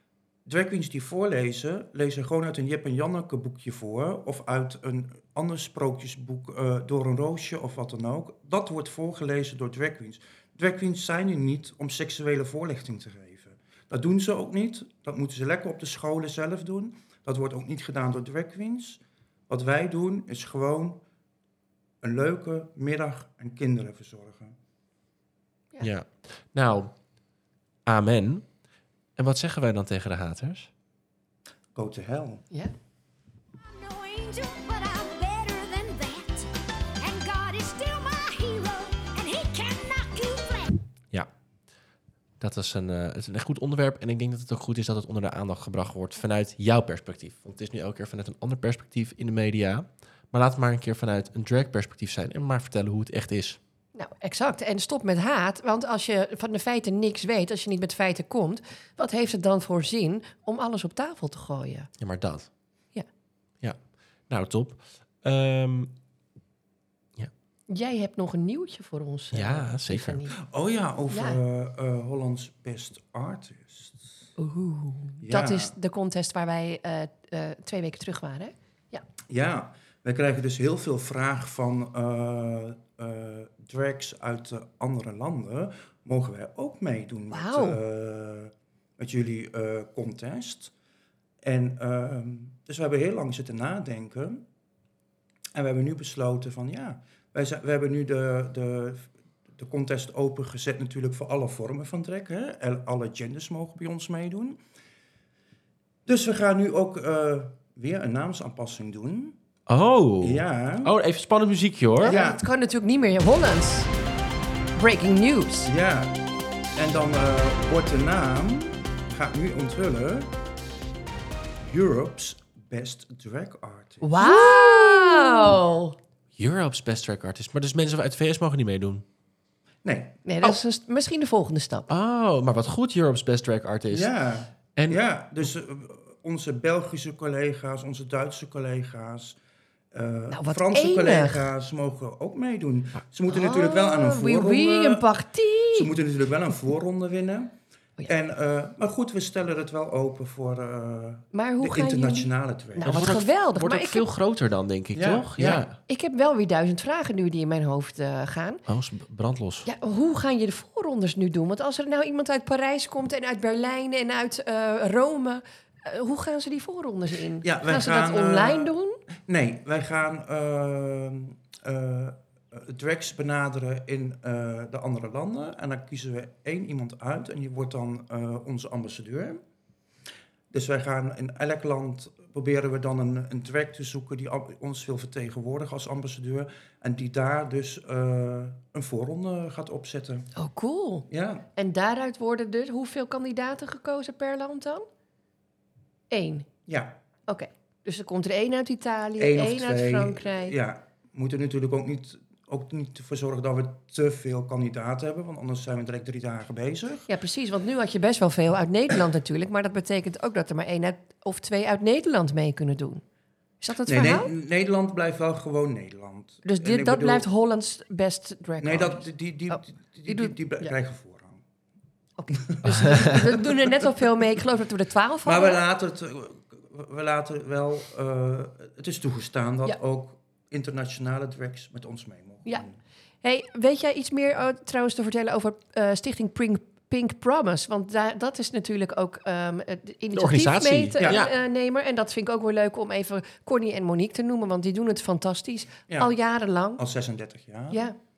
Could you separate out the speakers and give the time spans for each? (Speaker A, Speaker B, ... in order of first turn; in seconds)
Speaker A: 0.5-21.0, 22.0-24.6, 31.7-32.4, 70.4-74.3, 75.2-75.7, 79.3-90.7, 91.4-94.4, 95.5-104.6, 106.0-109.3, 110.2-110.9, 112.0-112.4, 115.6-116.2, 116.7-120.3, 121.7-124.9, 129.8-130.2, 133.9-139.4, 139.9-145.1, 145.7-153.2, 154.9-155.7, 167.4-179.4, 180.5-190.3, 191.1-191.5, 196.7-197.0, 199.2-207.1, 213.8-217.3, 218.6-221.4, 222.4-223.9, 225.2-232.8, 241.0-241.3, 245.9-246.1, 246.8-247.8
Speaker B: 25.8-26.9, 27.9-28.4, 29.2-30.7, 42.4-53.6, 62.0-62.5, 63.6-65.9, 69.3-70.2, 109.7-112.2, 124.4-125.4, 126.4-129.0, 131.9-134.1, 134.8-135.0, 152.8-155.8, 158.7-159.7, 222.7-223.0, 240.1-241.3
Speaker C: 33.6-40.8
Speaker D: 53.9-61.9, 67.7-70.3, 71.1-71.4, 74.4-79.0, 87.3-87.8, 112.0-113.9, 114.8-115.7, 124.0-126.0, 130.2-131.9, 140.3-141.4, 143.3-145.9, 151.3-154.1, 155.8-158.6, 159.7-169.0, 190.4-194.8, 196.1-196.5, 197.3-200.5, 207.1-213.0, 213.6-214.3, 216.4-220.7, 222.2-225.6, 233.2-246.8, 247.7-247.9